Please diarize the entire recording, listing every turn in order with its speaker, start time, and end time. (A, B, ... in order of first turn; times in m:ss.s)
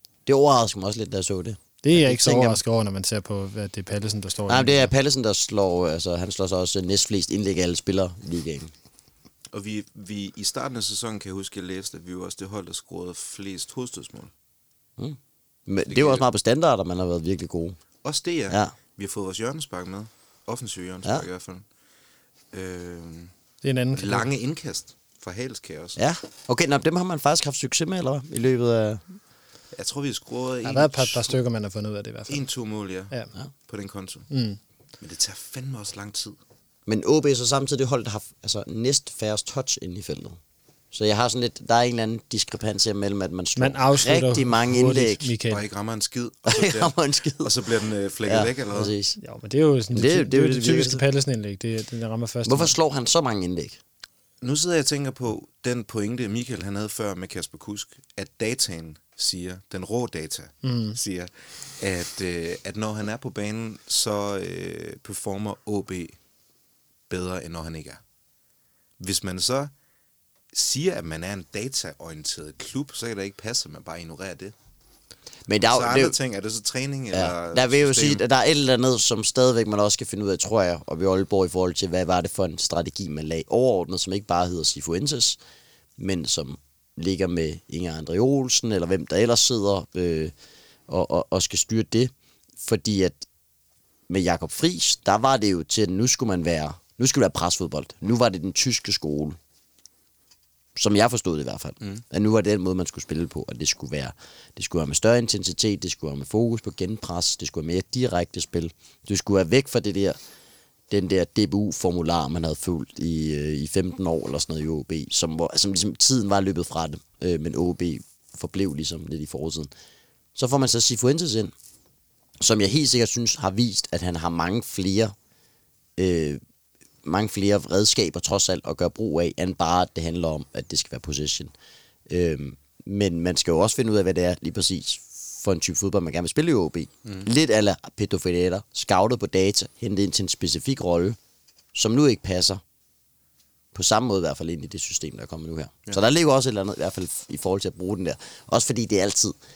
0:00.3-0:02.6 A
0:01.8-0:04.9 B
0:04.5-0:08.7 A
0:09.5-0:14.3 C
0:15.0-0:17.8 A
0:15.9-0:16.2 C
0:18.0-0:21.6 C
0:18.5-0:18.8 A
0:22.5-0:23.3 C
0:23.6-0:24.3 B
0:23.9-0:26.0 C
0:26.0-0:29.0 A
0:29.7-0:31.4 C
0:30.6-0:32.4 B
0:32.3-0:33.1 C
0:33.7-0:34.3 C
0:34.3-0:34.6 B
0:35.0-0:36.4 C
0:36.9-0:40.4 A
0:40.9-0:45.3 A
0:43.6-0:45.6 B
0:45.5-0:48.9 C
0:46.5-0:47.7 A
0:48.3-0:49.2 A
0:49.2-0:52.8 B
0:49.9-0:51.0 A
0:52.4-0:53.8 A
0:54.4-1:06.2 C
1:00.6-1:01.0 B
1:07.1-1:08.0 C
1:09.0-1:09.7 C
1:10.5-1:14.5 C
1:15.5-1:16.2 A
1:15.7-1:18.2 C
1:17.1-1:25.4 A
1:26.0-1:30.3 A
1:30.9-1:33.2 A
1:34.1-1:39.4 A
1:40.8-1:50.2 A
1:50.9-1:59.7 A
2:00.4-2:01.5 A
2:02.4-2:05.2 A
2:06.0-2:06.4 A
2:07.0-2:11.5 A
2:12.1-2:21.2 A
2:21.7-2:22.6 A
2:23.7-2:29.4 A